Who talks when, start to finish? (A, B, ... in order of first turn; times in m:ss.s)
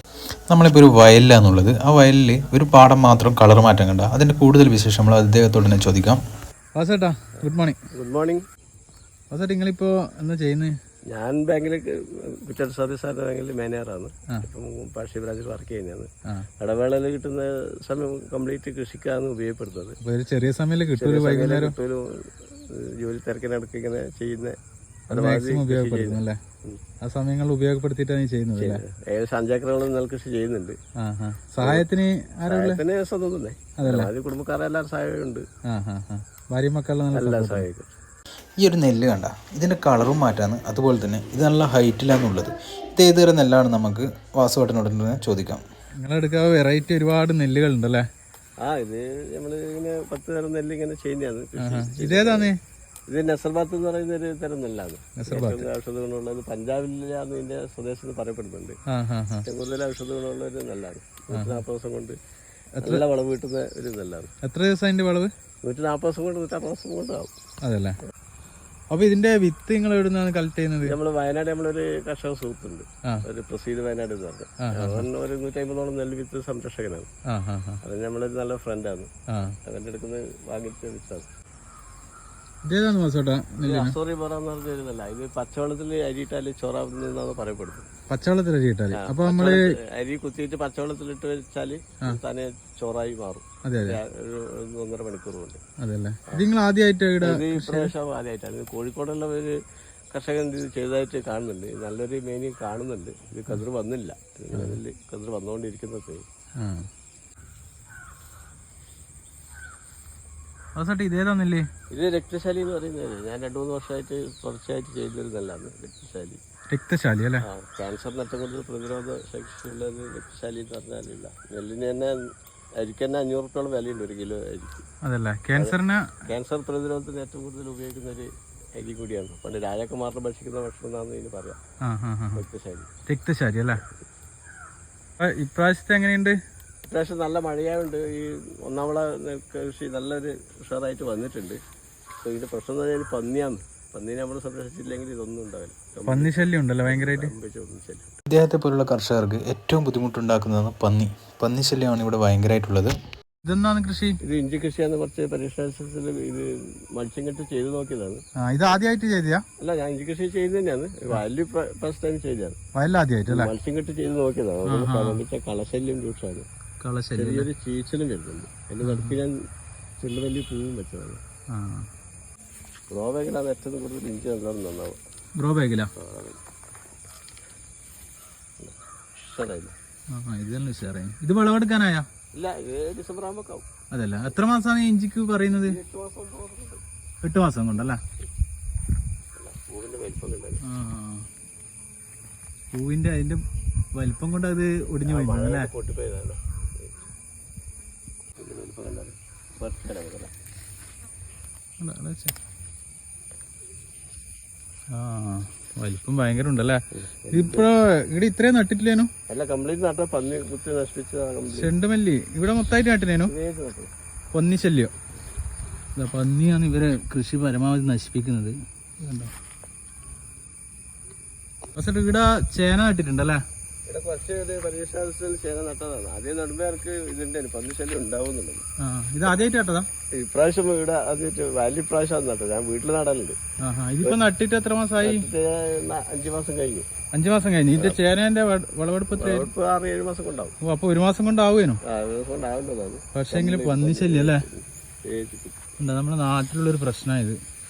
0:00.5-0:06.2 A
0:06.7-0:07.8 B
0:07.9-0:08.4 C
0:09.3-0:10.7 B
0:11.1-0:16.1 C
0:16.6-0:20.0 C
0:20.0-0:21.7 B
0:21.0-0:24.6 C
0:25.1-0:26.4 B
0:25.1-0:26.8 C
0:27.0-0:28.8 B
0:28.6-0:30.8 C
0:31.0-0:32.8 B
0:31.6-0:31.9 C
0:32.4-0:35.4 C
0:33.8-0:34.1 B
0:35.7-0:37.6 B
0:37.1-0:37.9 C
0:38.6-0:45.6 A
0:46.0-0:48.0 B
0:48.6-0:52.5 C
0:51.6-0:52.6 B
0:53.1-0:58.8 C
0:55.2-0:55.6 B
0:58.9-0:59.4 B
0:59.4-1:02.2 C
1:01.3-1:01.6 B
1:02.8-1:04.3 C
1:04.4-1:05.3 B
1:05.6-1:07.3 C
1:07.6-1:08.0 B
1:08.9-1:11.0 B
1:10.8-1:17.1 C
1:14.6-1:15.1 B
1:17.3-1:17.8 B
1:17.8-1:19.1 C
1:19.7-1:21.3 C
1:22.6-1:23.9 B
1:23.6-1:27.8 C
1:28.1-1:29.6 B
1:28.9-1:35.6 C
1:33.6-1:34.0 B
1:35.8-1:37.9 B
1:37.2-1:39.5 C
1:40.1-1:46.2 C
1:46.6-1:46.9 B
1:50.8-1:51.6 B
1:51.9-1:56.4 C
1:56.7-1:57.4 B
1:57.4-2:02.2 C
2:02.8-2:04.8 C
2:05.0-2:06.2 B
2:05.5-2:11.6 C
2:11.8-2:12.4 B
2:12.3-2:12.9 C
2:13.1-2:13.8 B
2:15.2-2:16.4 B
2:16.9-2:21.6 C
2:22.2-2:28.2 C
2:26.1-2:27.3 B
2:28.3-2:32.9 A
2:33.4-2:34.2 B
2:34.2-2:38.2 C
2:38.4-2:39.4 B
2:39.6-2:42.6 C
2:42.7-2:43.5 B
2:43.3-2:46.5 C
2:44.6-2:45.2 B
2:46.8-2:47.5 B
2:47.2-2:49.4 C
2:48.8-2:49.2 B
2:50.0-2:51.2 C
2:51.5-2:51.8 B
2:52.9-2:55.0 C
2:55.4-2:55.9 B
2:56.0-2:56.4 C
2:58.6-2:59.7 C
3:00.1-3:02.0 B
3:02.3-3:03.7 C
3:03.9-3:05.8 B
3:05.5-3:06.8 C
3:07.2-3:08.0 B
3:09.4-3:10.6 C
3:10.6-3:11.2 B
3:12.7-3:13.4 B
3:14.0-3:15.7 B
3:15.0-3:16.9 C
3:18.4-3:20.3 C
3:21.8-3:22.3 B
3:24.9-3:26.8 B
3:26.9-3:27.7 C
3:27.3-3:29.1 B
3:29.3-3:31.7 C
3:31.5-3:33.3 B
3:33.2-3:33.9 C
3:34.3-3:34.9 B
3:36.0-3:39.3 B
3:41.7-3:43.4 B
3:43.9-3:48.6 C
3:48.8-3:49.9 B
3:50.1-3:53.4 C
3:53.6-3:55.2 B
3:55.0-3:56.9 C
3:57.1-3:59.5 B
3:57.8-3:58.0 C
3:59.1-4:00.5 C
4:00.6-4:01.8 B
4:01.8-4:05.6 C
4:03.1-4:04.4 B
4:05.8-4:07.4 B